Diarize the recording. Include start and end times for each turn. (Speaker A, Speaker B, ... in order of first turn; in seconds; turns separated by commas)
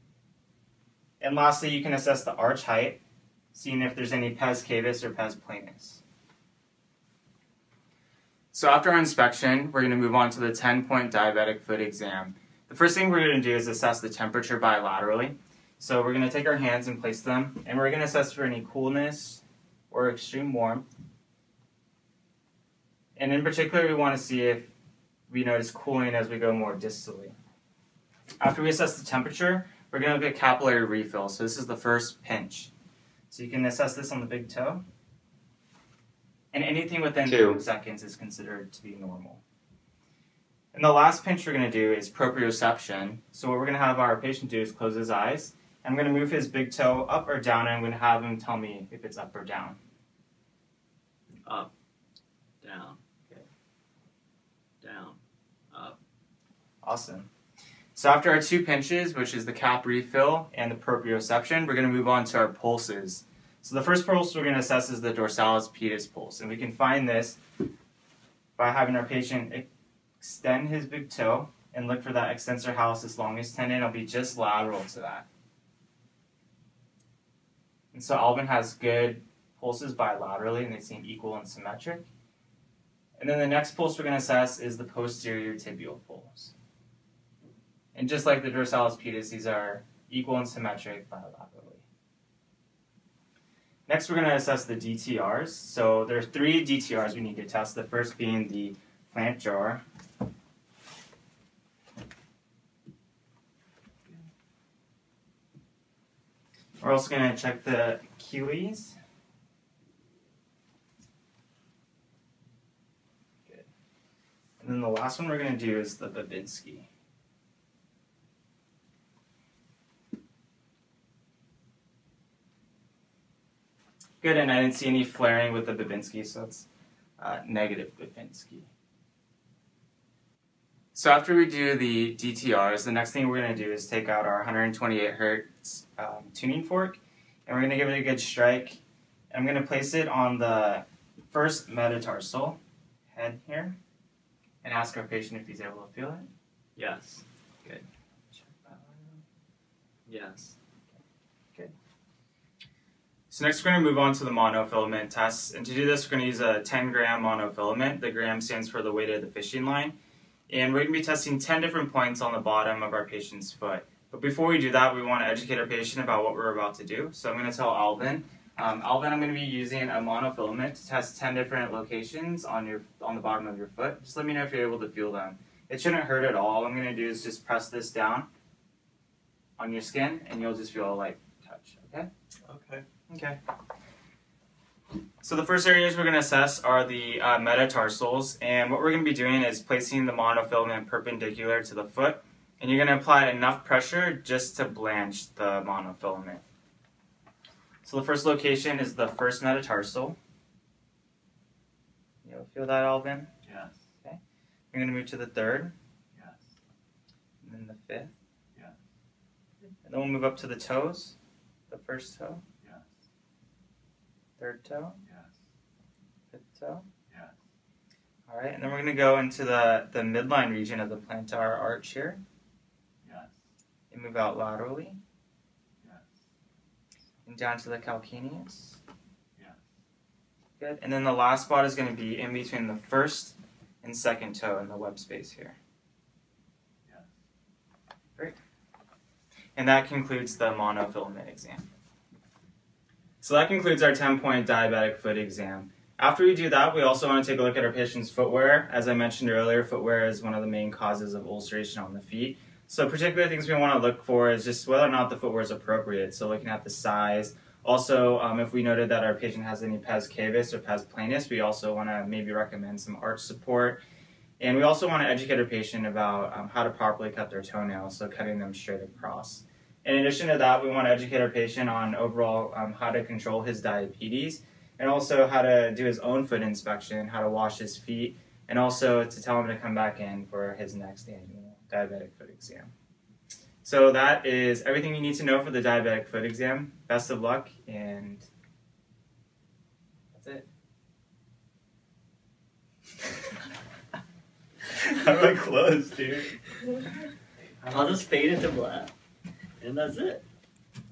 Speaker A: 1.2-3.0, Speaker A: 3.5-6.0, Speaker A: 8.5-20.9, Speaker A: 23.2-24.7, Speaker A: 25.3-27.3, Speaker A: 28.4-32.7, Speaker A: 33.3-34.8, Speaker A: 36.5-39.4, Speaker A: 40.7-49.8, Speaker B: 52.6-53.0, Speaker B: 54.8-55.2, Speaker B: 55.7-56.0, Speaker A: 56.8-57.3, Speaker A: 58.0-67.4, Speaker A: 68.6-69.7, Speaker A: 70.2-75.3, Speaker A: 77.9-82.1, Speaker A: 83.2-86.5, Speaker A: 88.0-91.9, Speaker A: 93.9-99.8, Speaker A: 106.8-109.0, Speaker A: 114.6-116.9, Speaker A: 124.2-126.7, Speaker A: 127.2-128.7, Speaker A: 130.9-138.8, Speaker A: 139.3-142.6, Speaker A: 143.1-143.8, Speaker A: 144.6-146.3, Speaker B: 146.8-147.8, Speaker A: 148.3-149.2, Speaker B: 150.1-150.6, Speaker A: 153.3-159.9, Speaker A: 160.5-178.3, Speaker A: 179.6-182.1, Speaker B: 182.5-182.8, Speaker A: 183.1-183.4, Speaker A: 185.2-196.4, Speaker A: 197.8-200.2, Speaker A: 202.2-203.3, Speaker B: 203.4-203.8, Speaker A: 204.7-205.7, Speaker B: 206.2-206.5, Speaker A: 207.4-208.1, Speaker A: 209.8-211.2, Speaker A: 211.7-212.4, Speaker B: 212.6-212.9, Speaker A: 214.4-215.0, Speaker B: 215.1-215.4, Speaker A: 216.3-216.9, Speaker B: 217.1-217.4, Speaker A: 218.3-222.2, Speaker B: 223.0-223.4, Speaker A: 223.9-225.0, Speaker B: 225.8-226.2, Speaker A: 227.3-228.8, Speaker B: 229.4-229.7, Speaker A: 230.6-235.6, Speaker B: 236.9-237.1, Speaker A: 239.6-241.7, Speaker A: 243.2-263.8, Speaker A: 264.4-282.7, Speaker A: 283.6-288.3, Speaker A: 290.1-290.4, Speaker A: 294.9-296.3, Speaker B: 297.6-298.9, Speaker B: 299.6-300.2